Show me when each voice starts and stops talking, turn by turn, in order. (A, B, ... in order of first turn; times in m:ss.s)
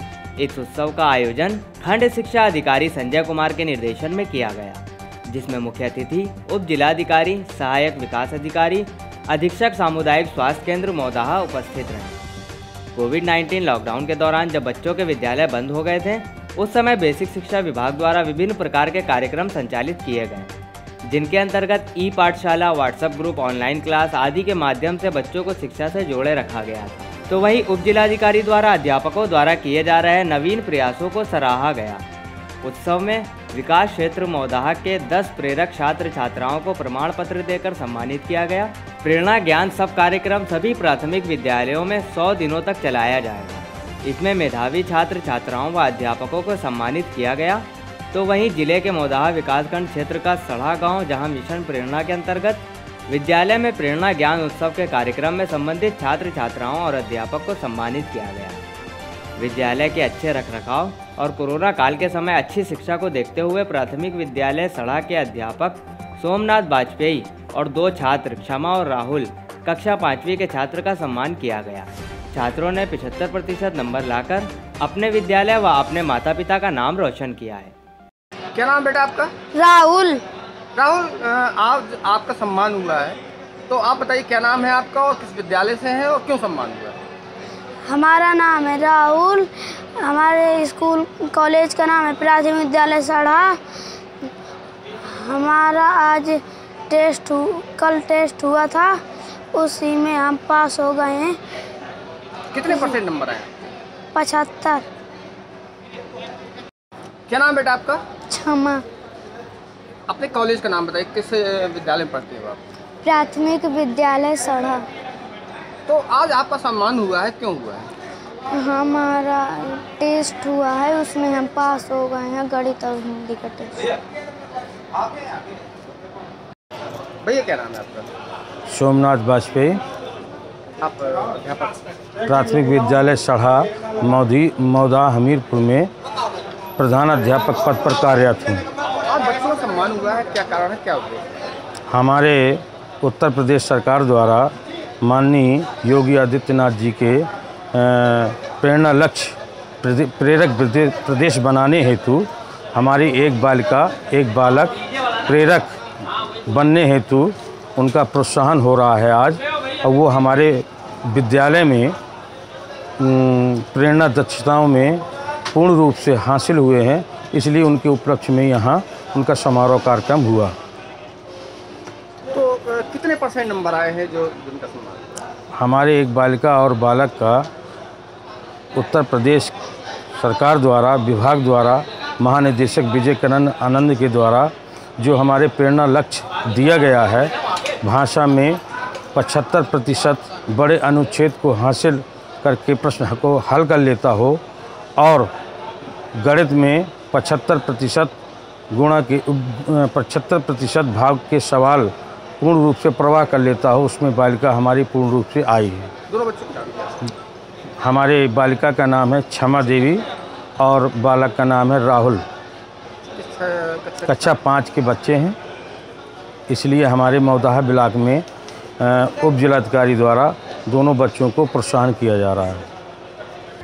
0:00.4-0:12.2 A
0:13.0-0:32.0 A
0:32.6-0:58.6 A
0:59.4-1:17.7 A
1:18.6-1:19.3 B
1:19.5-1:20.2 C
1:20.8-1:23.2 B
1:23.7-1:27.0 B
1:27.9-1:33.6 C
1:35.1-1:36.4 C
1:36.9-1:39.0 C
1:39.5-1:41.4 C
1:42.5-1:43.5 B
1:44.2-1:44.8 C
1:47.3-1:48.0 B
1:48.3-1:48.8 C
1:50.1-1:52.6 B
1:53.0-1:54.8 C
1:55.9-1:57.9 B
1:58.5-2:03.9 C
2:07.2-2:08.1 B
2:08.7-2:09.8 D
2:10.8-2:11.8 B
2:12.2-2:15.9 D
2:16.8-2:18.6 D
2:19.1-2:21.2 B
2:21.9-2:24.5 D
2:25.0-2:35.7 D
2:36.5-2:42.0 D
2:43.0-2:50.6 D
2:52.3-2:55.2 B
2:55.6-2:57.5 D
2:58.8-2:59.5 D
3:00.2-3:07.3 D
3:07.8-3:08.6 D
3:09.2-3:14.4 D
3:15.0-3:15.3 D
3:16.2-3:18.1 D
3:18.7-3:25.9 D
3:26.1-3:27.0 B
3:27.8-3:30.0 D
3:30.6-3:32.2 D
3:33.1-3:34.3 B
3:34.1-3:35.4 D
3:36.5-3:38.2 D
3:38.8-3:42.6 D